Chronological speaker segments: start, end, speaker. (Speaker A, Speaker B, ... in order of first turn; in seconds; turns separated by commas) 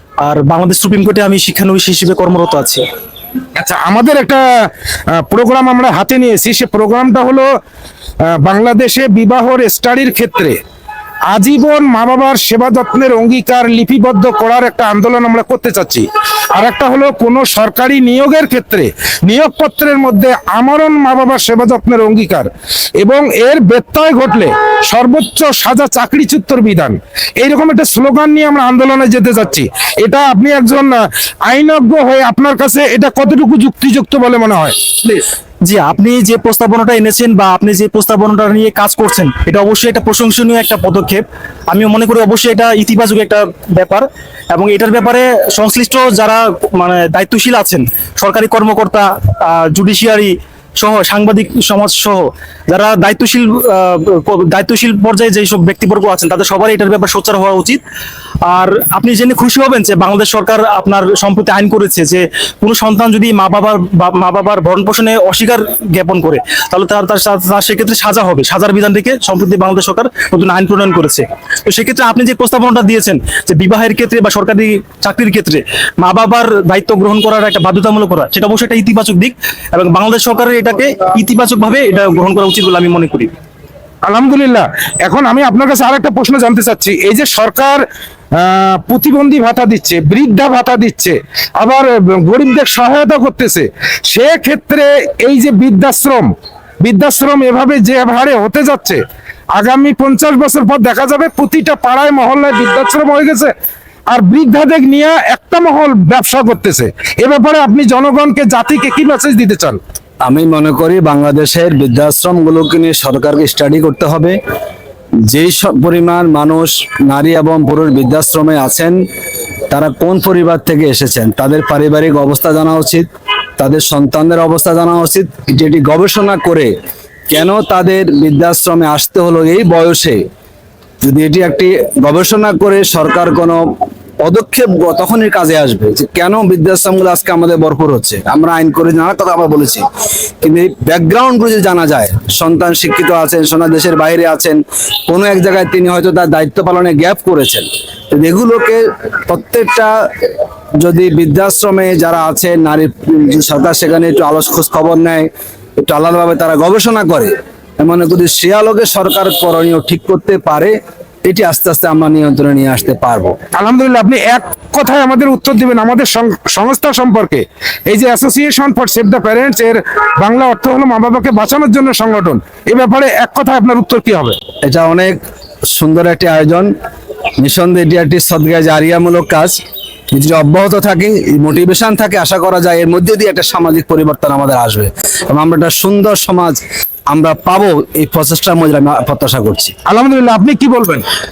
Speaker A: 0.2-2.8, Speaker B: 3.5-7.5, Speaker B: 8.2-10.6, Speaker B: 11.3-34.8, Speaker A: 35.0-57.8, Speaker A: 58.4-83.3, Speaker B: 84.0-87.8, Speaker B: 88.3-99.0, Speaker B: 99.5-103.5, Speaker B: 104.1-109.8, Speaker C: 110.2-114.4, Speaker C: 115.2-119.0, Speaker C: 119.7-123.0, Speaker C: 123.6-126.7, Speaker C: 127.3-130.2, Speaker C: 131.0-133.6, Speaker C: 134.2-139.8, Speaker C: 140.4-150.3, Speaker C: 150.8-160.7, Speaker C: 161.2-163.3, Speaker B: 163.5-174.4, Speaker C: 174.6-175.2, Speaker C: 175.7-176.7, Speaker C: 177.4-179.6, Speaker C: 180.1-189.7, Speaker B: 189.8-191.1